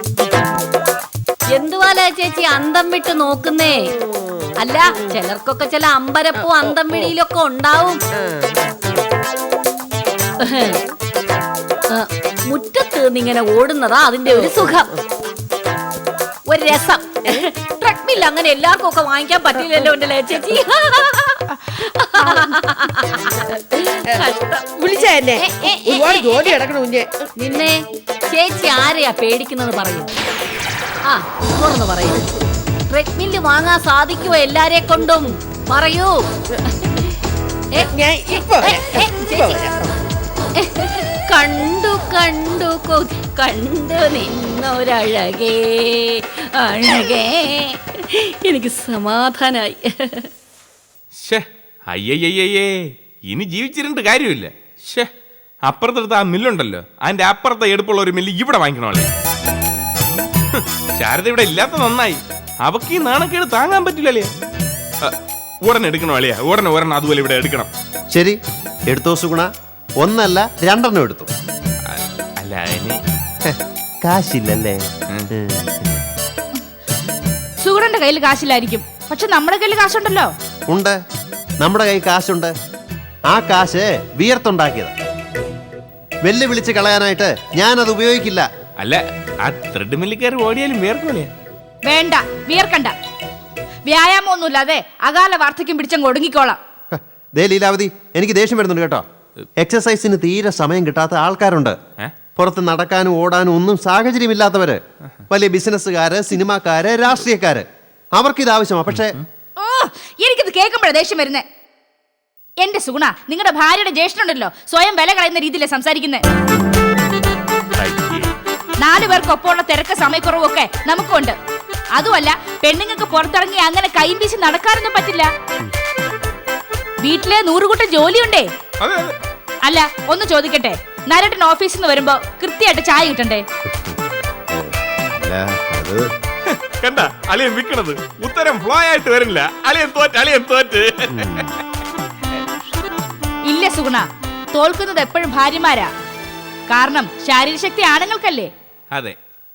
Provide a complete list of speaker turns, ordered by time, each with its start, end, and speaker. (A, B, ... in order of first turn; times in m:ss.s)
0:01.5-0:03.7 A
0:03.9-0:05.2 B
0:04.6-0:08.0 A
0:06.3-0:07.1 B
0:08.2-0:09.0 B
0:10.4-0:10.7 A
0:10.5-0:10.8 B
0:11.9-0:14.9 A
0:14.3-0:15.0 B
0:16.5-0:24.7 A
0:24.8-0:27.2 B
0:25.4-0:26.5 A
0:27.4-0:27.8 A
0:28.3-0:30.1 A
0:31.1-0:32.2 A
0:32.9-0:36.2 A
0:37.8-0:39.9 B
0:38.4-0:39.7 A
0:40.6-0:50.3 A
0:51.2-0:52.8 C
0:53.3-0:55.1 C
0:55.6-0:59.1 C
1:00.5-1:04.3 C
1:05.6-1:07.7 C
1:08.1-1:08.4 D
1:08.9-1:09.5 D
1:10.0-1:11.3 D
1:11.8-1:13.0 C
1:13.4-1:14.8 D
1:15.3-1:16.0 D
1:17.6-1:20.3 E
1:20.7-1:21.0 D
1:21.6-1:22.5 D
1:23.3-1:24.9 D
1:26.2-1:28.5 D
1:28.8-1:31.3 C
1:31.8-1:32.9 E
1:33.8-1:36.6 E
1:36.9-1:39.0 D
1:39.6-1:41.8 D
1:42.4-1:44.8 D
1:45.3-1:47.6 D
1:48.2-1:49.2 D
1:48.9-1:49.2 C
1:49.6-1:51.4 E
1:52.6-1:56.2 E
1:57.8-1:58.3 C
1:58.8-2:01.4 E
2:01.9-2:05.3 E
2:07.0-2:08.5 E
2:08.8-2:09.1 C
2:09.6-2:13.4 E
2:14.5-2:16.0 D
2:16.5-2:21.5 C
2:21.1-2:21.4 D
2:23.5-2:25.9 E
2:26.7-2:28.5 E